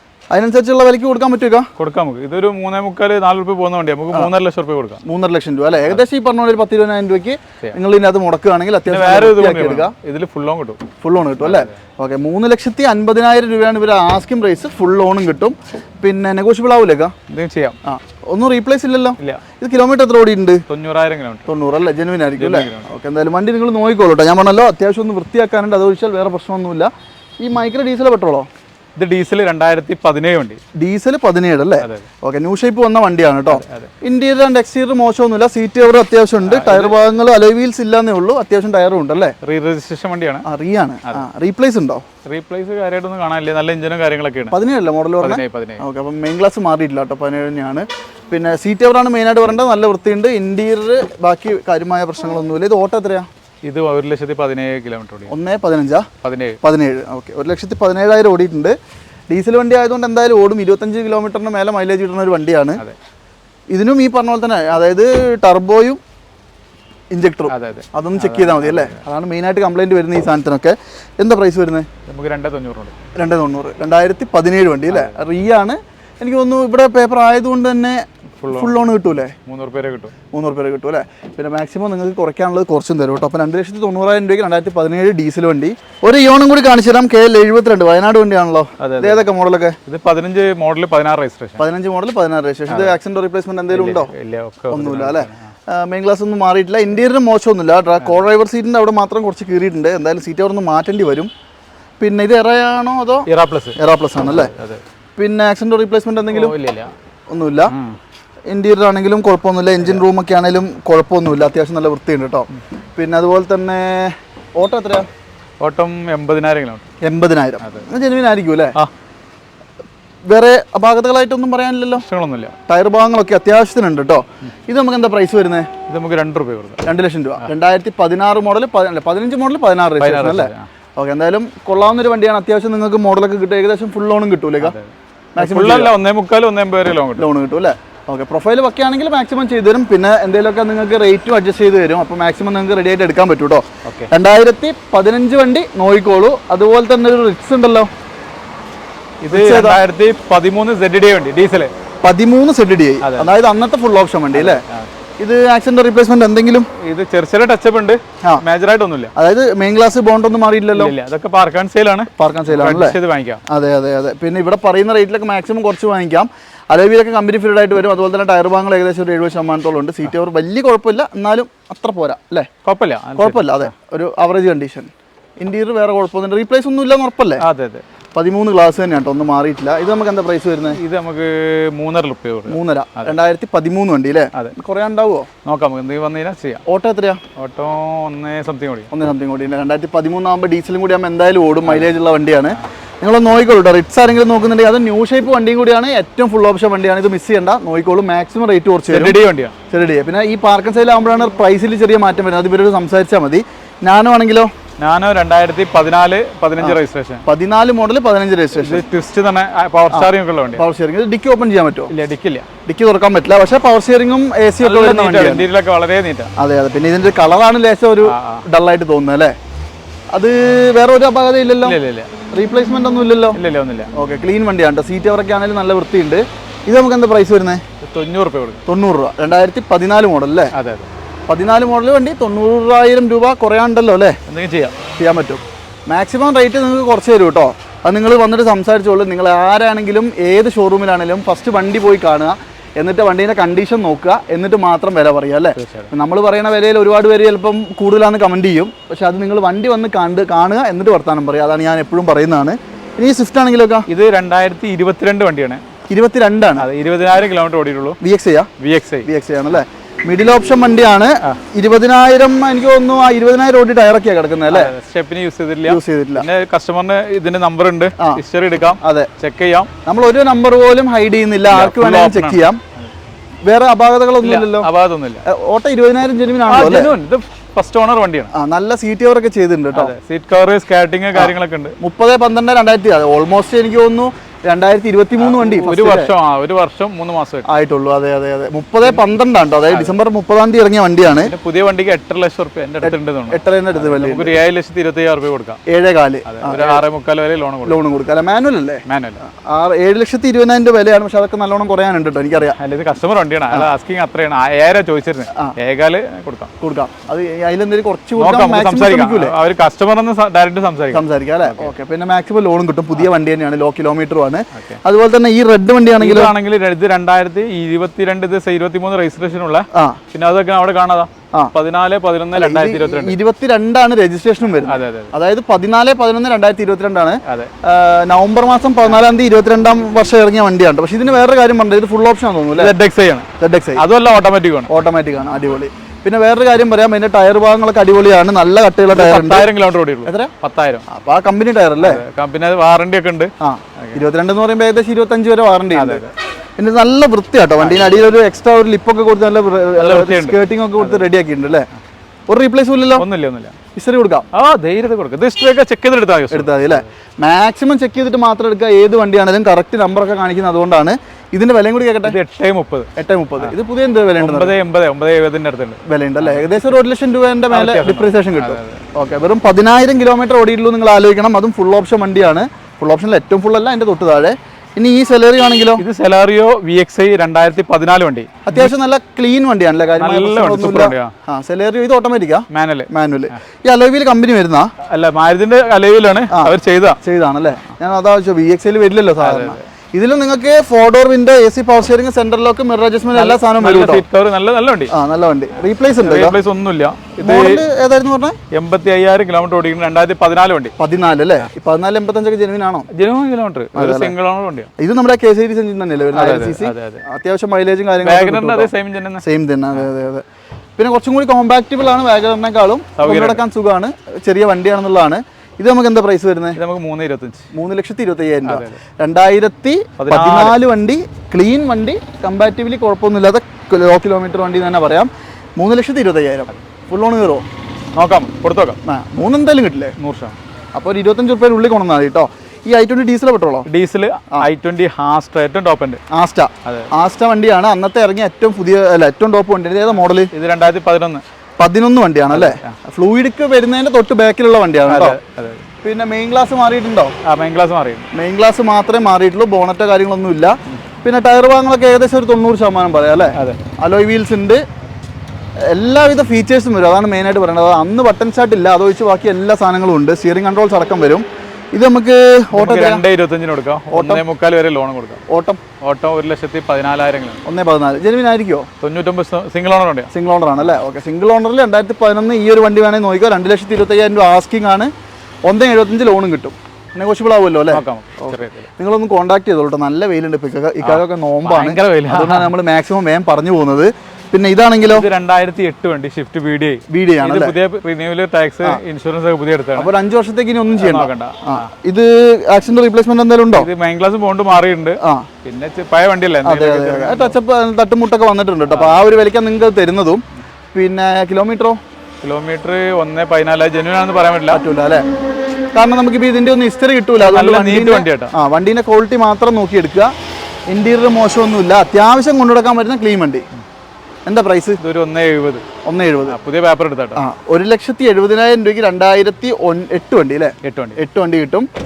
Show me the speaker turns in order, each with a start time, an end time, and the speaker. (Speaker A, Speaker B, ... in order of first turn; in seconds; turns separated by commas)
Speaker A: 0.3-1.7, Speaker B: 1.8-5.0, Speaker A: 5.0-9.9, Speaker B: 8.9-10.8, Speaker A: 11.0-17.1, Speaker B: 11.4-11.8, Speaker B: 17.3-17.8, Speaker A: 17.8-20.6, Speaker B: 20.7-21.5, Speaker A: 21.5-28.5, Speaker B: 22.4-22.9, Speaker B: 29.0-30.6, Speaker A: 30.8-39.4, Speaker B: 31.8-32.1, Speaker B: 33.5-33.9, Speaker B: 36.5-37.0, Speaker B: 39.4-40.5, Speaker A: 40.5-42.0, Speaker B: 42.2-44.5, Speaker A: 44.5-53.3, Speaker B: 45.2-45.8, Speaker B: 53.6-55.4, Speaker A: 55.3-56.1, Speaker B: 56.2-56.6, Speaker A: 56.6-58.8, Speaker A: 59.3-62.8, Speaker A: 63.7-66.0, Speaker A: 67.1-71.9, Speaker B: 67.5-69.0, Speaker B: 72.1-72.9, Speaker A: 73.2-79.3, Speaker B: 74.9-75.2, Speaker B: 78.4-78.9, Speaker B: 79.5-80.1, Speaker A: 80.3-89.8, Speaker B: 88.8-89.3, Speaker B: 89.9-91.7, Speaker A: 91.6-94.1, Speaker B: 92.7-93.0, Speaker B: 93.7-95.4, Speaker A: 94.7-101.3, Speaker A: 102.0-104.5, Speaker B: 103.3-103.8, Speaker B: 104.3-104.8, Speaker A: 105.2-106.5, Speaker B: 106.3-106.9, Speaker A: 107.3-107.7, Speaker B: 107.7-108.0, Speaker A: 108.5-115.1, Speaker B: 115.6-116.8, Speaker A: 117.0-118.8, Speaker A: 120.3-122.1, Speaker B: 122.0-122.5, Speaker A: 122.7-125.7, Speaker B: 125.9-126.8, Speaker A: 126.8-134.8, Speaker B: 130.0-130.7, Speaker B: 134.6-137.3, Speaker A: 135.4-135.9, Speaker A: 137.2-147.9, Speaker B: 143.8-144.1, Speaker B: 149.2-151.7, Speaker A: 149.3-149.8, Speaker A: 152.0-154.6, Speaker B: 153.0-153.3, Speaker B: 154.3-154.9, Speaker A: 155.2-156.7, Speaker B: 156.8-159.1, Speaker A: 159.2-160.9, Speaker B: 160.7-163.4, Speaker A: 162.2-172.5, Speaker B: 172.6-173.6, Speaker A: 173.2-177.4, Speaker B: 177.4-177.8, Speaker A: 178.2-180.8, Speaker B: 180.8-183.1, Speaker A: 182.5-185.3, Speaker B: 185.4-186.6, Speaker A: 186.7-187.2, Speaker B: 187.4-188.9, Speaker A: 188.9-199.2, Speaker B: 191.7-191.9, Speaker B: 198.9-199.6, Speaker A: 199.7-204.5, Speaker B: 204.8-207.2, Speaker A: 206.6-208.8, Speaker B: 208.6-210.6, Speaker A: 209.9-211.9, Speaker B: 211.9-212.5, Speaker A: 212.7-215.5, Speaker B: 214.6-216.3, Speaker A: 216.4-219.3, Speaker B: 218.0-218.5, Speaker A: 220.1-221.8, Speaker B: 221.6-222.1, Speaker A: 222.3-223.4, Speaker B: 223.3-223.9, Speaker A: 223.9-227.6, Speaker B: 227.8-228.6, Speaker A: 228.7-230.5, Speaker B: 230.5-230.9, Speaker A: 231.3-234.2, Speaker B: 234.3-234.8, Speaker A: 235.0-253.9, Speaker B: 245.6-245.9, Speaker B: 253.9-255.6, Speaker A: 255.9-256.7, Speaker B: 256.6-258.0, Speaker A: 258.0-258.5, Speaker B: 258.6-259.1, Speaker A: 259.1-264.7, Speaker B: 264.5-269.7, Speaker A: 265.7-266.3, Speaker A: 268.7-269.1, Speaker A: 269.9-272.6, Speaker B: 271.5-272.5, Speaker A: 273.5-274.7, Speaker B: 274.2-275.2, Speaker A: 275.2-276.9, Speaker B: 276.5-278.3, Speaker A: 278.3-279.9, Speaker B: 279.7-281.8, Speaker A: 281.1-286.1, Speaker B: 285.2-287.5, Speaker A: 287.5-291.3, Speaker B: 289.7-289.9, Speaker B: 291.1-295.6, Speaker A: 292.8-294.4, Speaker A: 295.7-296.8, Speaker B: 296.3-297.8, Speaker A: 297.6-302.6, Speaker B: 298.9-299.2, Speaker B: 302.6-306.5, Speaker A: 306.6-309.3, Speaker B: 308.2-311.7, Speaker A: 310.9-316.3, Speaker B: 314.5-314.8, Speaker B: 316.0-323.2, Speaker A: 319.7-320.0, Speaker A: 322.3-332.7, Speaker B: 324.6-325.1, Speaker B: 327.3-327.5, Speaker B: 332.6-334.7, Speaker A: 333.4-333.8, Speaker A: 334.7-339.5, Speaker B: 338.9-340.9, Speaker A: 340.1-340.3, Speaker A: 340.9-342.0, Speaker B: 341.8-344.1, Speaker A: 343.4-346.1, Speaker B: 345.7-346.1, Speaker A: 346.6-351.7, Speaker B: 347.6-348.0, Speaker B: 349.8-351.1, Speaker A: 352.3-353.1, Speaker B: 353.0-353.6, Speaker A: 353.8-354.3, Speaker B: 354.3-356.9, Speaker A: 356.3-362.2, Speaker B: 362.0-362.9, Speaker A: 362.9-364.6, Speaker B: 364.2-366.5, Speaker A: 365.9-375.8, Speaker B: 367.5-368.8, Speaker B: 375.8-378.7, Speaker A: 378.5-384.7, Speaker B: 379.9-381.1, Speaker B: 382.5-382.9, Speaker B: 384.9-387.0, Speaker A: 386.3-394.1, Speaker B: 389.2-389.7, Speaker B: 393.1-394.9, Speaker A: 394.9-396.4, Speaker B: 396.0-397.6, Speaker A: 397.2-398.4, Speaker B: 398.5-400.8, Speaker A: 400.8-402.9, Speaker B: 402.9-404.7, Speaker A: 403.8-404.1, Speaker A: 404.8-410.2, Speaker B: 406.1-407.0, Speaker B: 408.0-409.9, Speaker A: 410.8-416.6, Speaker B: 413.0-413.4, Speaker B: 416.6-417.5, Speaker A: 417.5-427.4, Speaker B: 418.5-418.8, Speaker B: 420.0-420.6, Speaker B: 427.9-428.8, Speaker A: 428.9-429.9, Speaker B: 430.0-430.4, Speaker A: 430.8-433.7, Speaker B: 433.7-436.0, Speaker A: 436.1-440.3, Speaker B: 436.6-436.9, Speaker B: 440.0-441.2, Speaker A: 441.6-445.2, Speaker B: 442.3-442.8, Speaker B: 444.9-445.6, Speaker A: 445.8-447.1, Speaker B: 447.2-448.1, Speaker A: 448.1-454.6, Speaker B: 453.4-453.6, Speaker A: 455.7-463.0, Speaker B: 462.5-465.2, Speaker A: 463.9-464.2, Speaker A: 465.3-465.6, Speaker B: 465.8-467.4, Speaker A: 467.5-468.7, Speaker B: 468.8-470.8, Speaker A: 470.1-474.9, Speaker A: 475.5-485.1, Speaker B: 477.7-478.7, Speaker B: 480.8-482.5, Speaker B: 484.9-489.9, Speaker A: 486.9-487.6, Speaker A: 489.8-493.7, Speaker B: 490.8-491.7, Speaker B: 493.5-497.4, Speaker A: 495.0-495.3, Speaker A: 496.4-500.2, Speaker B: 498.7-499.1, Speaker A: 500.7-501.8, Speaker B: 502.2-504.6, Speaker A: 504.5-505.0, Speaker A: 505.8-510.1, Speaker B: 507.2-508.3, Speaker A: 510.7-513.5, Speaker A: 514.3-514.8, Speaker B: 514.8-515.6, Speaker A: 515.8-516.4, Speaker B: 516.2-517.2, Speaker A: 517.2-521.7, Speaker B: 520.6-521.0